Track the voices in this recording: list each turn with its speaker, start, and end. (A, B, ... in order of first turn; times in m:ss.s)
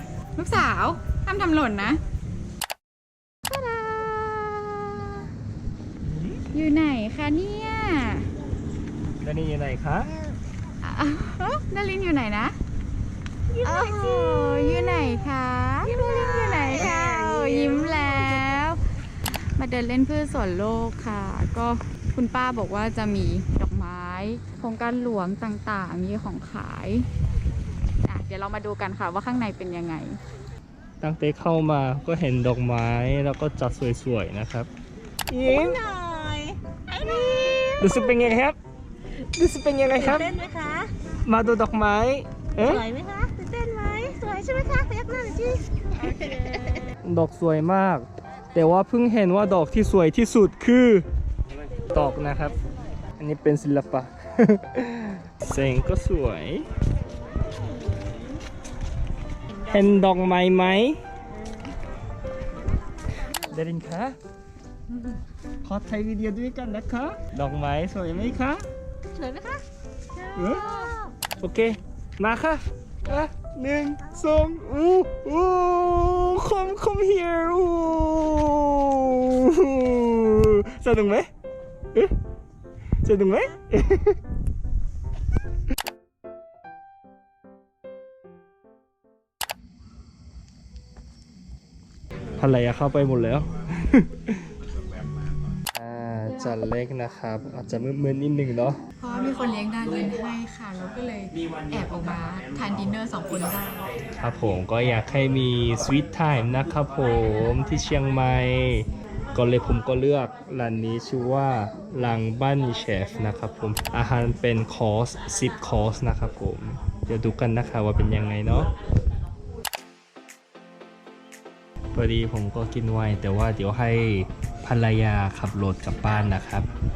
0:00.4-0:02.0 A
0:03.4-0:05.3 A
0:06.0-0:06.4 B
0:06.5-0:08.3 A
0:09.2-0:10.1 B
0:10.8-0:12.6 A
0:13.5-0:27.1 A
0:13.6-0:15.0 C
0:15.9-0:18.5 C
0:28.0-0:30.2 A
0:31.0-0:34.7 B
0:35.3-0:35.8 B
0:35.4-0:38.0 C
0:37.8-0:38.6 B
0:39.1-0:40.4 B
0:40.0-0:40.9 C
0:41.2-0:42.8 B
0:42.6-0:46.9 C
0:47.0-0:51.0 B
0:51.9-0:52.6 B
0:53.2-0:56.7 B
0:59.6-1:01.0 B
1:03.3-1:04.2 B
1:05.6-1:08.7 B
1:09.1-1:09.6 C
1:10.2-1:11.1 C
1:10.3-1:10.8 B
1:11.4-1:21.3 B
1:23.0-1:24.2 B
1:32.4-1:34.5 B
1:35.7-1:38.8 B
1:39.0-1:43.9 A
1:44.1-1:58.7 B
2:01.9-2:06.7 B